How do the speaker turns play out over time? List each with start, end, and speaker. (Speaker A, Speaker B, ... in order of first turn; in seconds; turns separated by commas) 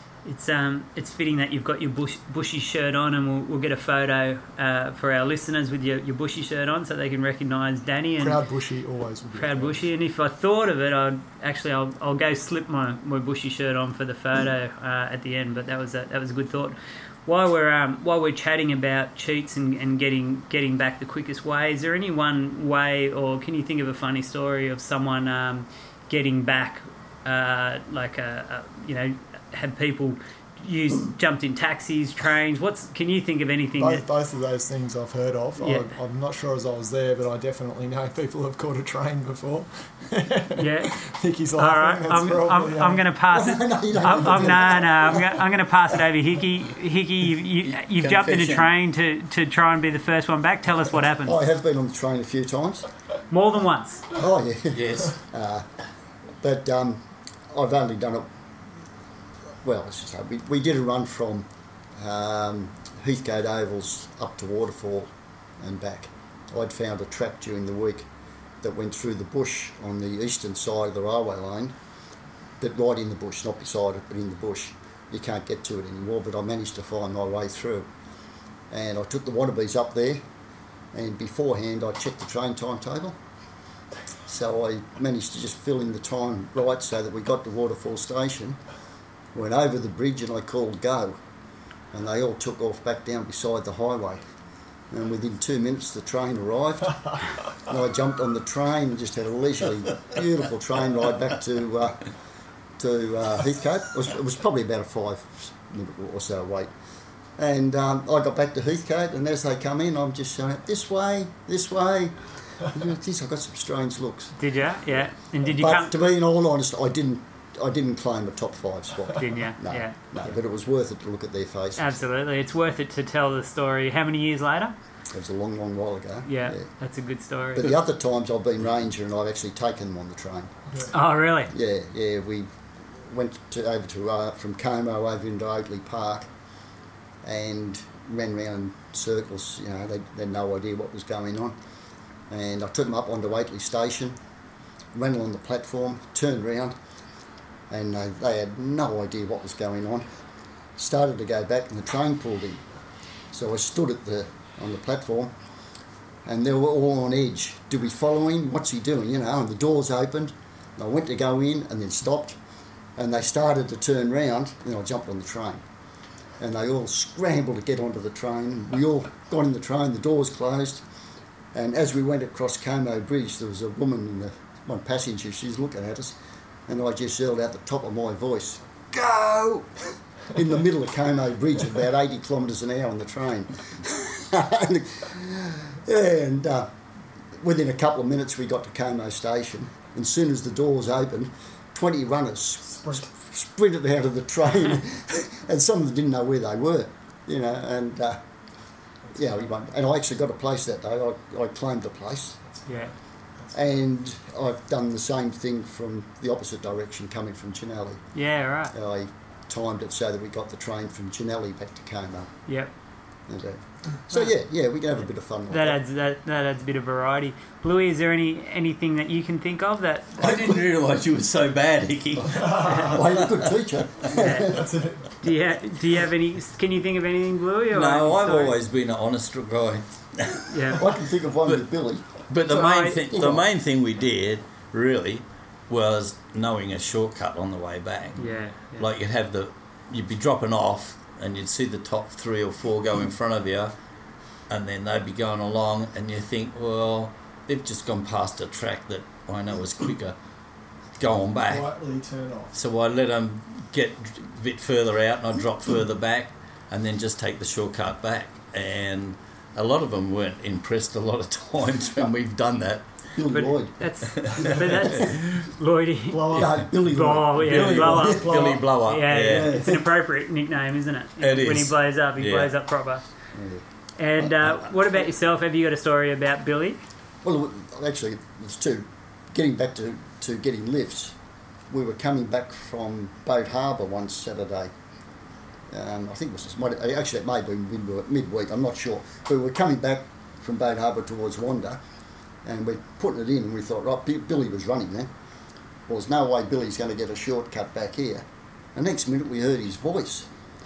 Speaker A: 0.2-8.4, Speaker B: 8.2-9.9, Speaker A: 9.3-34.0, Speaker B: 33.8-43.0, Speaker A: 35.6-35.9, Speaker A: 40.6-41.0, Speaker A: 41.6-51.4, Speaker C: 43.3-45.4, Speaker D: 47.6-48.7, Speaker C: 51.2-52.9, Speaker A: 53.3-54.0, Speaker C: 54.1-55.7, Speaker D: 54.7-55.2, Speaker C: 56.4-58.3, Speaker C: 59.6-68.1, Speaker C: 68.6-71.8, Speaker C: 72.6-77.9, Speaker C: 78.7-80.2, Speaker C: 80.9-83.2, Speaker C: 84.3-88.6, Speaker C: 89.3-91.2, Speaker C: 91.9-94.2, Speaker C: 94.9-102.0, Speaker C: 102.8-106.7, Speaker C: 107.4-114.3, Speaker A: 114.4-115.9, Speaker C: 115.4-122.0, Speaker A: 119.2-120.0, Speaker A: 121.8-124.8, Speaker C: 125.1-126.7, Speaker A: 126.3-127.7, Speaker C: 127.5-130.5, Speaker A: 130.9-131.5, Speaker C: 131.5-136.3, Speaker C: 137.2-141.6, Speaker C: 142.3-144.2, Speaker C: 144.9-146.8, Speaker C: 147.7-150.1, Speaker C: 150.8-152.6, Speaker C: 153.3-155.3, Speaker C: 156.2-162.4, Speaker C: 163.0-165.6, Speaker C: 166.4-170.8, Speaker C: 171.5-186.7, Speaker C: 187.3-198.2, Speaker C: 199.1-202.4, Speaker A: 202.7-202.9, Speaker B: 202.7-203.6, Speaker C: 203.5-208.0, Speaker A: 208.2-208.7, Speaker C: 208.7-212.3, Speaker C: 213.3-215.8, Speaker A: 215.5-220.5, Speaker D: 220.2-223.5, Speaker C: 222.6-224.8, Speaker A: 224.1-224.6, Speaker B: 224.5-225.1, Speaker A: 225.2-228.5, Speaker D: 227.7-230.7, Speaker A: 230.5-230.8, Speaker C: 230.7-233.5, Speaker D: 232.3-243.7, Speaker A: 232.5-233.0, Speaker A: 238.2-238.8, Speaker D: 244.5-250.2, Speaker D: 251.0-251.7, Speaker B: 251.4-252.5, Speaker D: 252.5-262.9, Speaker C: 263.1-263.7, Speaker A: 263.3-273.0, Speaker D: 264.1-265.1, Speaker C: 264.9-265.1, Speaker B: 266.1-266.5, Speaker C: 266.3-268.6, Speaker D: 267.3-269.7, Speaker C: 269.2-269.8, Speaker D: 271.2-272.5, Speaker C: 273.3-273.6, Speaker A: 274.0-276.8, Speaker C: 277.2-281.2, Speaker C: 281.7-284.7, Speaker C: 285.7-291.8, Speaker C: 292.4-295.1, Speaker C: 295.9-298.2, Speaker C: 298.8-300.3